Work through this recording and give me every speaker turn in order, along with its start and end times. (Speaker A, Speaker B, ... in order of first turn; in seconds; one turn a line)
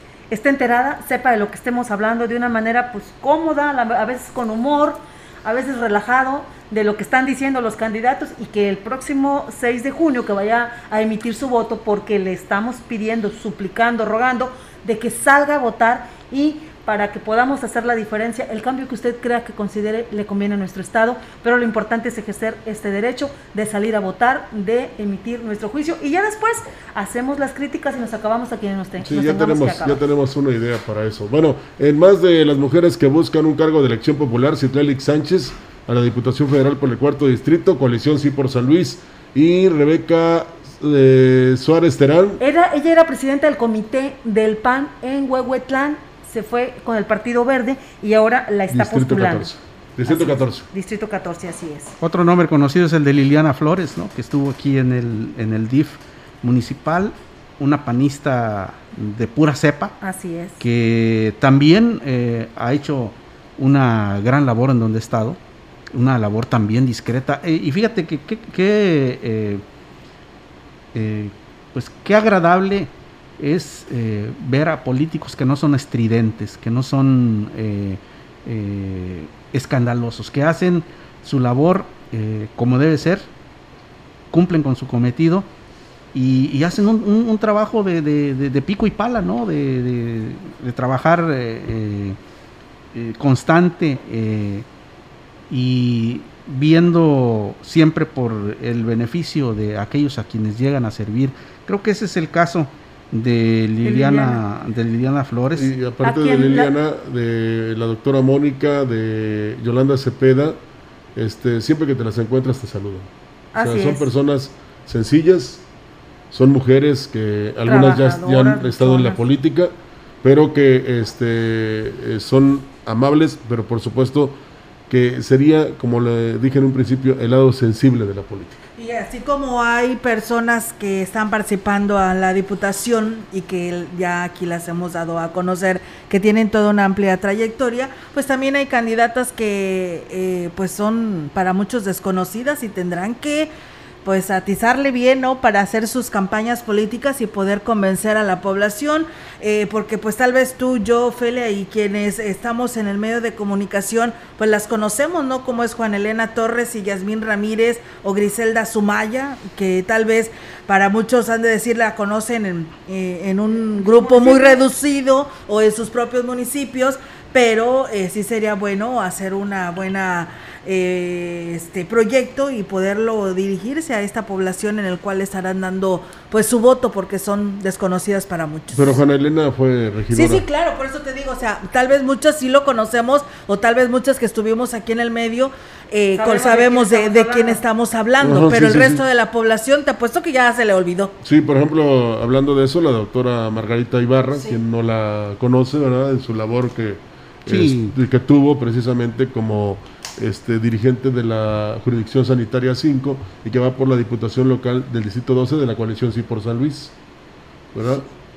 Speaker A: 0.3-30.0
Speaker B: 29.0-42.4
Speaker A: 42.4-49.5
Speaker B: 48.7-50.6
Speaker A: 50.0-51.9
Speaker C: 52.0-59.9
Speaker A: 60.0-60.6
Speaker C: 60.6-65.4
Speaker C: 65.9-69.6
Speaker C: 70.9-83.3
Speaker C: 84.3-85.5
Speaker C: 86.1-92.2
Speaker C: 92.9-94.7
Speaker C: 95.5-105.7
Speaker A: 103.8-104.4
Speaker B: 105.5-110.6
Speaker A: 106.0-106.7
Speaker B: 111.2-115.6
Speaker A: 113.5-114.1
Speaker B: 116.3-124.4
Speaker A: 117.6-119.2
Speaker B: 124.9-128.6
Speaker D: 128.8-143.5
Speaker D: 144.0-179.0
Speaker A: 163.9-164.6
Speaker B: 178.7-180.4
Speaker D: 180.1-191.1
Speaker A: 186.2-187.6
Speaker B: 188.2-189.0
Speaker B: 191.2-206.9
Speaker C: 197.5-197.9
Speaker B: 207.7-208.1